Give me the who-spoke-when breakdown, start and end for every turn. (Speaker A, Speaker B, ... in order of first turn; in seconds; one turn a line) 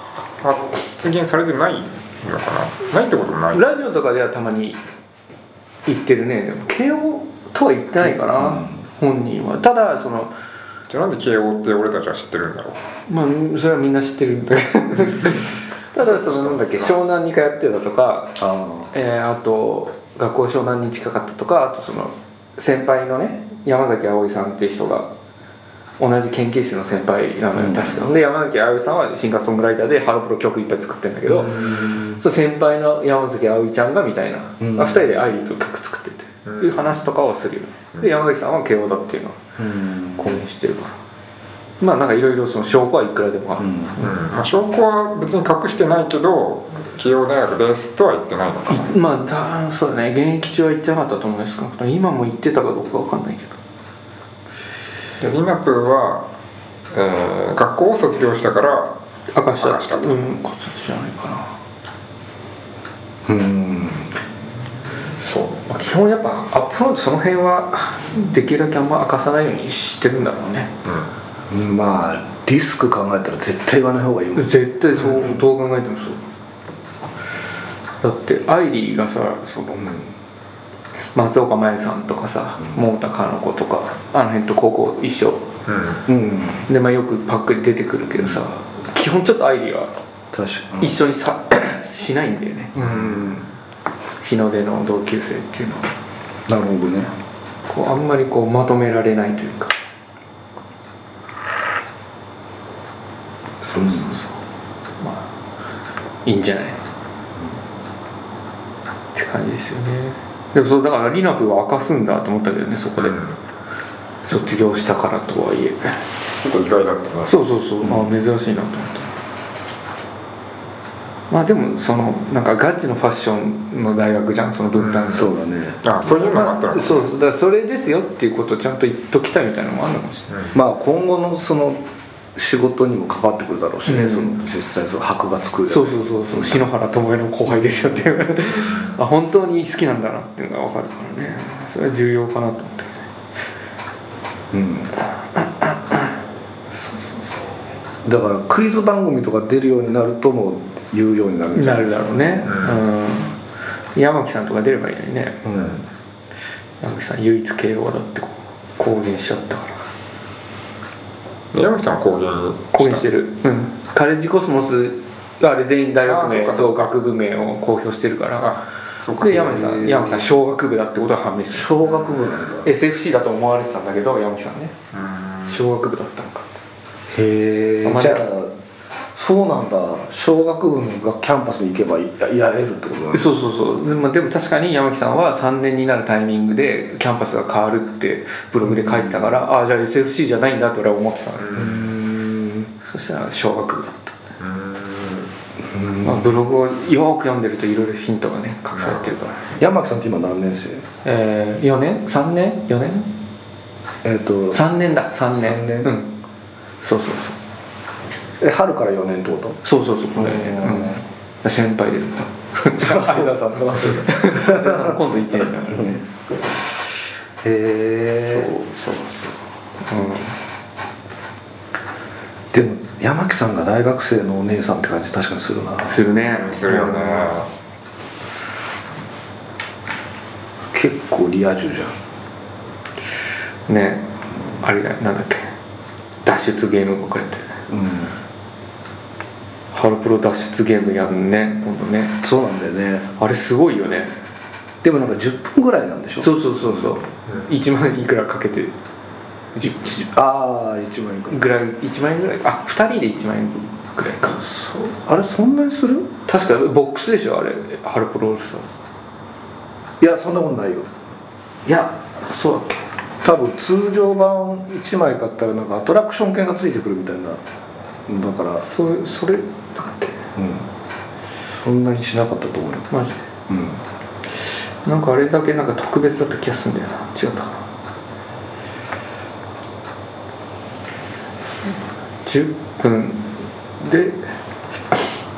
Speaker A: 0.3-3.7
Speaker B: 3.5-4.8
Speaker B: 5.9-10.3
Speaker C: 8.0-8.8
Speaker A: 10.9-12.8
Speaker B: 13.1-18.4
Speaker A: 16.0-16.9
Speaker C: 18.4-18.9
Speaker B: 18.9-25.1
Speaker B: 26.0-39.4
Speaker C: 27.5-28.1
Speaker A: 31.3-31.8
Speaker C: 31.4-32.1
Speaker C: 34.6-35.1
Speaker A: 36.5-37.0
Speaker C: 39.6-40.4
Speaker B: 40.2-40.9
Speaker B: 41.8-44.3
Speaker C: 43.6-44.0
Speaker A: 44.0-48.9
Speaker B: 48.7-53.6
Speaker A: 55.2-56.3
Speaker A: 56.9-59.0
Speaker B: 59.4-61.6
Speaker A: 59.6-60.2
Speaker C: 63.3-64.2
Speaker B: 65.2-70.7
Speaker A: 70.8-71.1
Speaker C: 71.5-75.4
Speaker B: 74.3-76.2
Speaker B: 78.0-80.0
Speaker C: 79.7-80.1
Speaker B: 81.1-85.5
Speaker C: 82.6-82.8
Speaker A: 85.7-86.1
Speaker C: 86.1-86.6
Speaker B: 86.7-89.9
Speaker C: 90.3-91.0
Speaker B: 90.8-92.8
Speaker C: 92.8-93.5
Speaker A: 92.8-93.4
Speaker B: 94.2-95.9
Speaker C: 96.5-97.1
Speaker B: 97.7-99.7
Speaker B: 103.6-104.4
Speaker C: 103.7-104.2
Speaker B: 105.0-105.3
Speaker B: 106.3-106.8
Speaker B: 109.2-113.3
Speaker A: 113.0-113.3
Speaker B: 114.2-116.0
Speaker A: 116.4-117.3
Speaker B: 117.2-119.1
Speaker C: 117.8-118.2
Speaker B: 121.3-125.3
Speaker A: 124.8-125.3
Speaker C: 125.1-125.8
Speaker A: 125.8-127.1
Speaker B: 126.0-130.3
Speaker A: 130.3-130.6
Speaker C: 130.5-131.8
Speaker C: 132.3-136.7
Speaker B: 133.9-134.4
Speaker B: 135.7-143.0
Speaker C: 144.5-144.9
Speaker B: 145.3-146.0
Speaker B: 146.9-147.4
Speaker C: 148.1-152.5
Speaker B: 151.5-153.4
Speaker A: 152.4-152.8
Speaker B: 153.9-155.4
Speaker C: 155.4-155.8
Speaker B: 156.8-159.8
Speaker A: 161.5-163.1
Speaker B: 162.7-168.6
Speaker A: 166.1-166.9
Speaker A: 168.4-170.3
Speaker B: 169.2-171.8
Speaker C: 171.5-172.7
Speaker A: 171.9-172.2
Speaker B: 172.6-174.8
Speaker A: 174.9-175.7
Speaker B: 175.5-176.5
Speaker C: 177.1-178.5
Speaker B: 177.8-178.2
Speaker C: 179.1-183.3
Speaker B: 183.1-191.5
Speaker C: 188.6-189.5
Speaker A: 191.4-191.8
Speaker C: 191.6-192.7
Speaker B: 192.8-194.2
Speaker A: 194.4-195.3
Speaker C: 195.6-196.4
Speaker B: 196.0-199.4
Speaker A: 198.7-199.2
Speaker C: 199.6-200.8
Speaker B: 201.1-203.1
Speaker C: 204.0-204.6
Speaker B: 204.5-206.1
Speaker C: 205.3-205.9
Speaker B: 206.8-207.4
Speaker C: 208.4-209.6
Speaker B: 209.6-216.1
Speaker C: 210.2-211.0
Speaker C: 212.8-215.0
Speaker C: 215.7-216.0
Speaker C: 217.4-218.5
Speaker B: 218.1-219.3
Speaker B: 219.9-220.4
Speaker C: 222.5-226.0
Speaker B: 225.8-227.4
Speaker A: 226.2-227.5
Speaker C: 230.7-231.9
Speaker B: 233.7-235.5
Speaker B: 236.2-237.5
Speaker C: 237.7-238.2
Speaker B: 239.7-242.2
Speaker C: 242.2-243.1
Speaker B: 243.2-244.2
Speaker C: 244.8-247.0
Speaker B: 246.2-248.7
Speaker B: 249.6-250.1
Speaker C: 250.0-251.4
Speaker B: 251.3-254.5
Speaker C: 254.4-256.1
Speaker B: 256.3-258.7
Speaker C: 260.0-260.9
Speaker B: 261.7-262.9
Speaker C: 263.2-267.4
Speaker C: 268.1-268.6
Speaker B: 268.6-270.2
Speaker C: 270.4-270.7
Speaker C: 271.6-272.9
Speaker B: 272.9-273.2
Speaker C: 273.5-273.8
Speaker B: 274.9-277.6
Speaker B: 282.2-284.2